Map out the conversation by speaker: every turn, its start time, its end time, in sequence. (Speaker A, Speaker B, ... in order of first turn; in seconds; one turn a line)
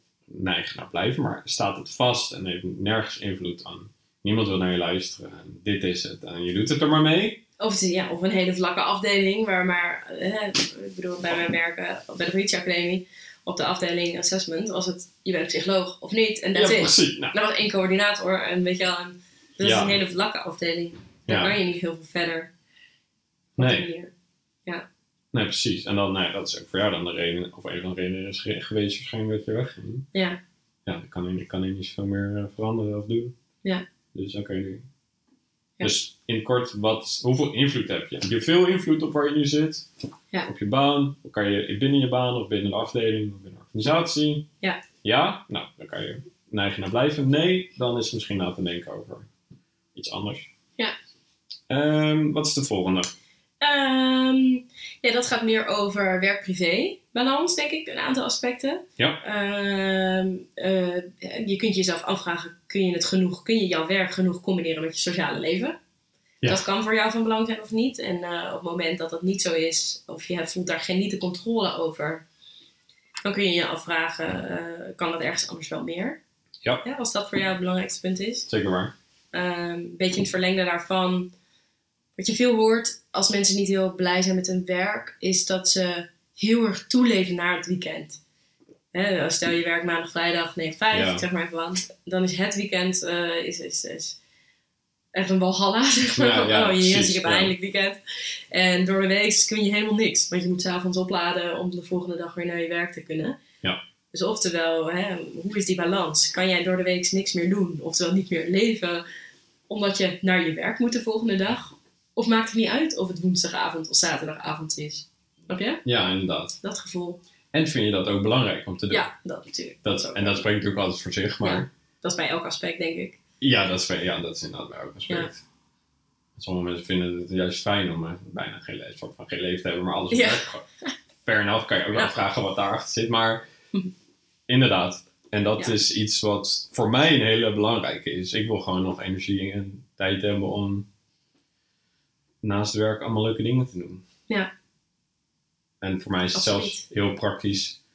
Speaker A: 0.3-7.4
Speaker B: 7.6-22.5
Speaker A: 16.5-17.3
Speaker A: 19.6-20.0
Speaker A: 21.3-21.6
Speaker B: 23.6-24.1
Speaker A: 23.6-23.9
Speaker A: 25.3-30.1
Speaker B: 30.1-30.4
Speaker A: 30.9-33.3
Speaker A: 34.1-34.8
Speaker A: 35.8-39.9
Speaker A: 40.4-44.5
Speaker A: 45.0-49.3
Speaker A: 49.9-50.5
Speaker A: 51.7-53.1
Speaker B: 53.6-65.8
Speaker B: 66.5-72.2
Speaker B: 73.2-76.2
Speaker B: 76.8-78.5
Speaker A: 78.5-78.9
Speaker B: 79.3-81.3
Speaker B: 82.2-88.2
Speaker B: 88.9-94.2
Speaker A: 90.9-91.2
Speaker B: 95.1-103.4
Speaker A: 96.1-97.5
Speaker B: 104.1-109.0
Speaker B: 109.7-115.8
Speaker A: 115.8-116.5
Speaker B: 116.6-117.2
Speaker A: 117.5-119.1
Speaker B: 118.9-120.5
Speaker A: 119.8-121.7
Speaker B: 121.4-123.2
Speaker A: 123.4-125.4
Speaker A: 126.4-130.6
Speaker B: 130.1-130.9
Speaker A: 131.2-133.4
Speaker A: 134.5-140.8
Speaker A: 142.4-144.0
Speaker A: 145.8-147.8
Speaker B: 146.3-146.8